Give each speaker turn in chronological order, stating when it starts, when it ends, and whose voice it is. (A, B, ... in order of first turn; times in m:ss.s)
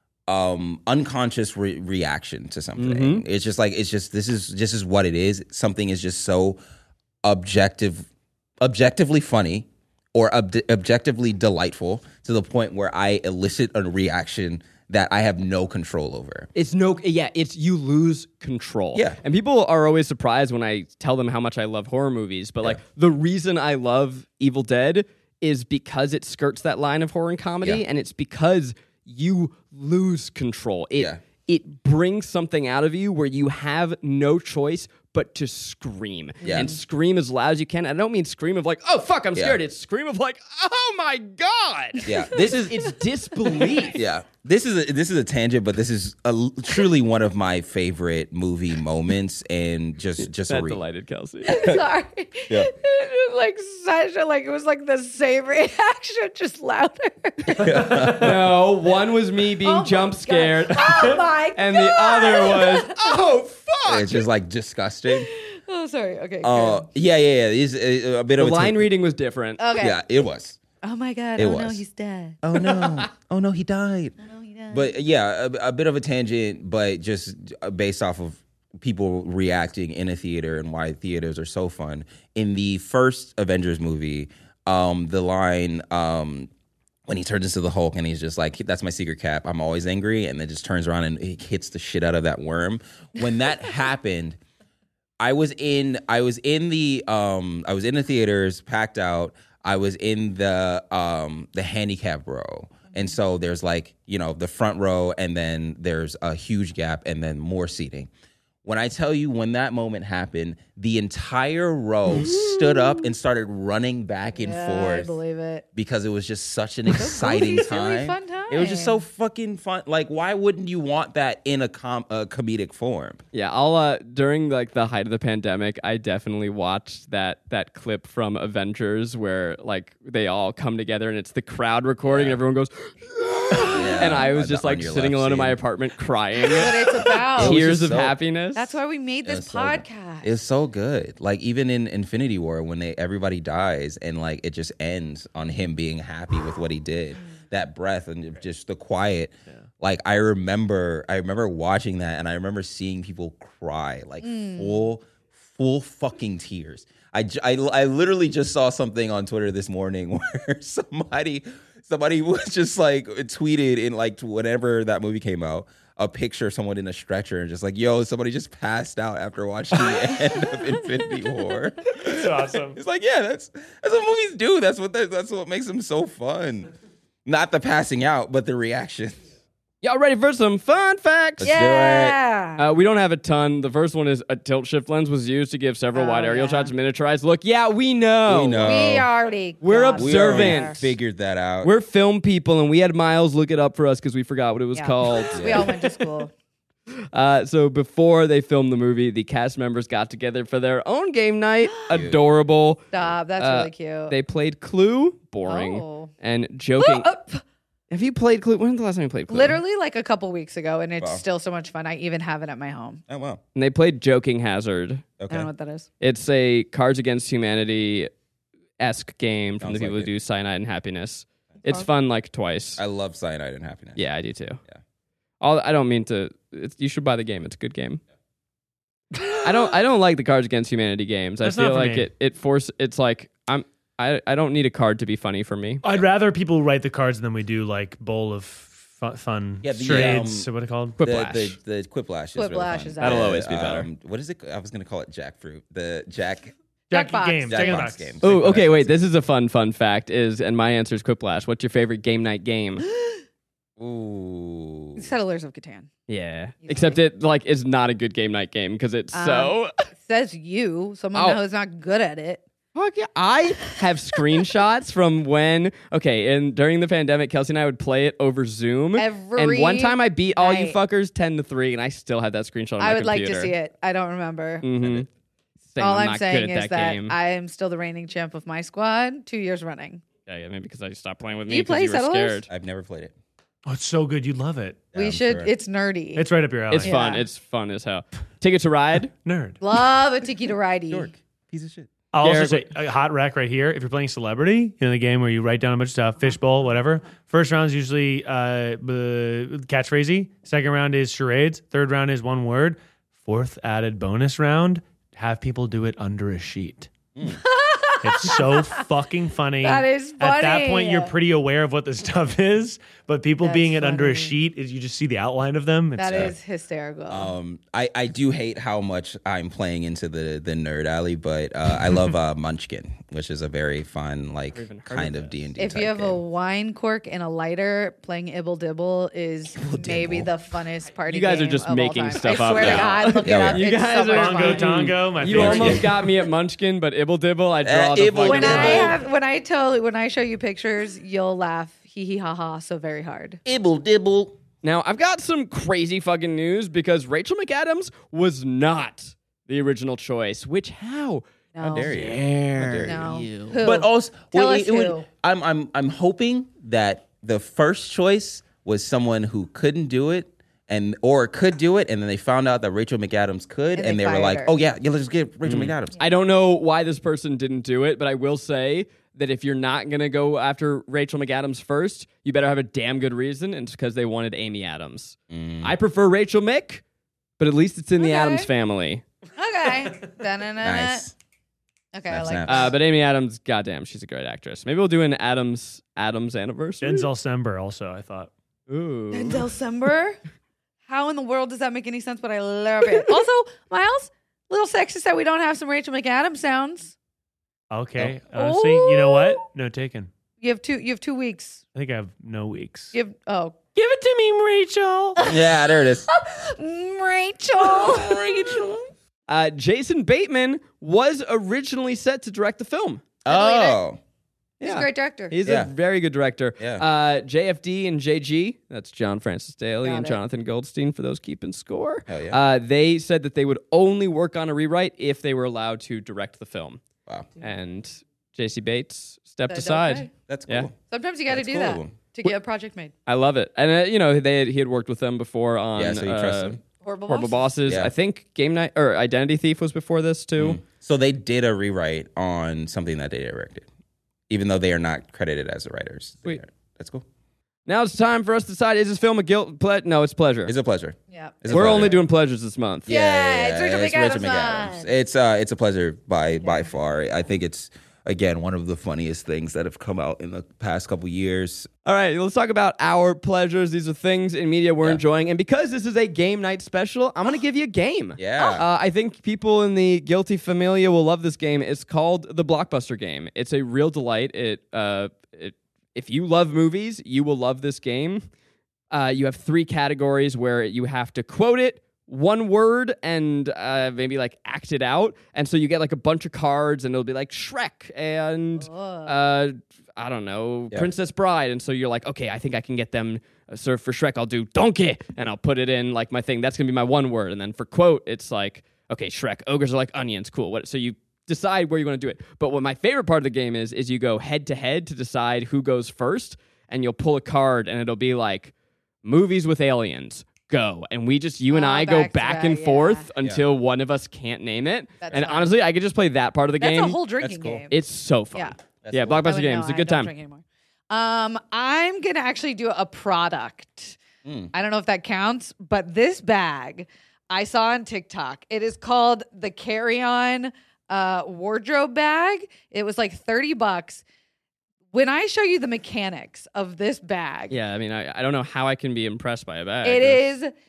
0:00.3-0:06.6 A
0:02.8-0:03.2 B
0:07.2-0:08.1 A
0:08.6-0:16.5 A
0:16.6-0:44.0 B
0:36.4-0:36.7 C
0:36.4-0:36.7 A
0:42.0-0:42.3 C
0:42.0-0:42.9 A
0:43.6-0:43.9 C
0:43.9-0:50.8 A
0:50.4-0:51.6 B
0:51.4-0:58.0 C
0:51.5-0:51.8 A
0:57.6-0:58.5 A
0:57.7-1:04.2 B
0:59.6-1:03.3 C
1:03.9-1:05.3 A
1:05.1-1:06.9 C
1:06.4-1:08.9 A
1:08.4-1:09.6 B
1:09.6-1:10.0 C
1:09.8-1:10.6 A
1:10.8-1:12.8 C
1:11.4-1:11.8 A
1:12.4-1:14.2 A
1:14.2-1:14.9 C
1:14.7-1:26.5 A
1:27.1-1:34.4 A
1:35.2-1:48.1 A
1:48.6-1:55.1 A
1:54.4-1:55.6 C
1:55.7-2:03.2 A
1:56.9-1:59.0 C
2:03.3-2:18.8 B
2:12.0-2:12.4 A
2:13.7-2:15.6 A
2:16.5-2:17.7 C
2:16.6-2:18.2 A
2:18.6-2:20.4 C
2:19.3-2:56.7 A
2:34.2-2:34.9 C
2:52.0-2:52.8 D
2:57.2-2:59.2 A
2:59.8-3:01.6 B
3:01.4-3:02.2 A
3:01.4-3:02.6 C
3:02.6-3:08.7 B
3:05.9-3:06.7 C
3:08.3-3:09.1 A
3:08.6-3:10.8 C
3:09.6-3:10.8 B
3:09.9-3:11.7 A
3:11.6-3:15.9 B
3:14.8-3:16.3 C
3:15.3-3:15.7 A
3:17.1-3:27.1 B
3:21.9-3:22.2 A
3:22.9-3:24.2 C
3:25.4-3:26.1 C
3:26.8-3:27.4 C
3:27.9-3:29.6 B
3:29.3-3:33.0 C
3:33.1-3:33.4 A
3:33.6-3:35.0 B
3:35.2-3:35.5 A
3:35.3-3:35.9 C
3:36.0-3:38.1 B
3:38.8-3:42.8 B
3:39.6-3:40.1 A
3:42.8-3:44.0 A
3:44.0-3:44.6 B
3:45.4-3:48.0 B
3:49.1-3:49.5 D
3:49.4-3:55.8 B
3:51.4-3:52.1 D
3:55.8-4:01.0 D
3:59.6-4:00.5 A
3:59.9-4:00.2 B
4:01.0-4:01.6 B
4:01.0-4:06.5 A
4:02.4-4:03.4 C
4:03.0-4:03.9 B
4:06.9-4:08.3 D
4:06.9-4:07.9 C
4:07.4-4:08.9 A
4:08.2-4:12.8 B
4:13.8-4:15.1 A
4:15.0-4:15.9 C
4:16.1-4:19.7 B
4:16.6-4:17.0 C
4:19.1-4:22.4 C
4:22.7-4:33.5 B
4:29.0-4:30.8 C
4:32.8-4:34.6 C
4:34.6-4:35.1 B
4:35.7-4:37.2 B
4:35.8-4:40.0 C
4:40.3-4:42.5 B
4:41.5-4:42.4 C
4:42.5-4:43.1 A
4:43.6-4:44.9 D
4:44.9-4:45.5 A
4:44.9-4:46.3 C
4:46.2-4:46.9 D
4:46.7-4:49.1 B
4:46.8-4:47.3 C
4:49.2-4:49.6 D
4:49.6-4:51.1 C
4:50.9-4:51.9 A
4:52.1-5:06.9 D
4:52.2-4:52.7 B
5:07.1-5:07.4 A
5:07.2-5:08.9 C
5:08.0-5:16.4 D
5:09.6-5:11.1 C
5:13.4-5:14.4 C
5:16.0-5:17.3 C
5:16.1-5:16.3 A
5:17.1-5:26.2 A
5:24.5-5:25.5 B
5:25.6-5:35.8 C
5:29.6-5:30.3 A
5:31.1-5:39.0 B
5:32.6-5:33.7 A
5:34.1-5:35.9 D
5:35.3-5:35.9 A
5:37.6-5:39.0 A
5:38.2-5:43.4 C
5:43.4-5:44.4 A
5:44.6-5:51.2 B
5:51.6-5:52.0 C
5:51.6-6:06.0 A
5:51.8-5:53.6 B
5:52.8-5:55.0 C
6:03.7-6:04.5 C
6:05.4-6:16.8 B
6:15.3-6:15.7 A
6:17.4-6:19.0 B
6:18.0-6:18.5 C
6:19.4-6:21.0 C
6:20.6-6:21.1 A
6:21.9-6:22.7 C
6:22.1-6:22.7 A
6:22.4-6:27.1 B
6:26.8-6:28.3 D
6:28.7-6:29.5 B
6:29.1-6:30.2 C
6:30.9-6:36.9 C
6:37.7-6:40.1 D
6:38.3-6:39.4 C
6:40.4-6:41.6 C
6:41.7-6:42.9 D
6:42.9-6:43.6 C
6:43.7-6:45.2 D
6:45.2-6:48.3 C
6:45.2-6:46.1 A
6:47.6-6:48.9 A
6:49.3-6:53.0 B
6:53.2-6:54.0 A
6:53.3-6:53.8 C
6:54.6-7:06.8 B
6:54.6-6:55.4 C
6:55.4-6:55.7 A
6:56.6-6:56.8 A
6:59.8-7:00.2 C
7:02.1-7:02.4 A
7:07.4-7:10.7 B
7:09.5-7:10.1 C
7:10.3-7:10.7 A
7:10.9-7:12.9 C
7:11.3-7:11.9 A
7:13.1-7:20.6 B
7:15.8-7:16.6 A
7:16.8-7:17.5 C
7:17.6-7:17.9 A
7:20.4-7:23.7 A
7:24.3-7:27.0 A
7:27.7-7:30.5 B
7:30.4-7:31.9 A
7:31.1-7:32.0 C
7:31.5-7:32.9 B
7:32.9-7:41.7 A
7:32.9-7:34.9 C
7:41.8-7:58.2 B
7:48.2-7:48.6 A
7:58.9-8:28.5 B
8:08.6-8:09.2 C
8:29.0-8:37.0 B
8:31.5-8:33.1 C
8:35.0-8:35.5 C
8:36.6-8:37.8 C
8:37.2-8:37.6 A
8:37.7-8:40.1 B
8:38.8-8:39.2 A
8:39.2-8:44.0 C
8:44.2-8:44.5 A
8:44.5-8:54.0 C
8:54.9-8:57.5 C
8:57.5-9:00.2 B
8:59.8-9:00.5 C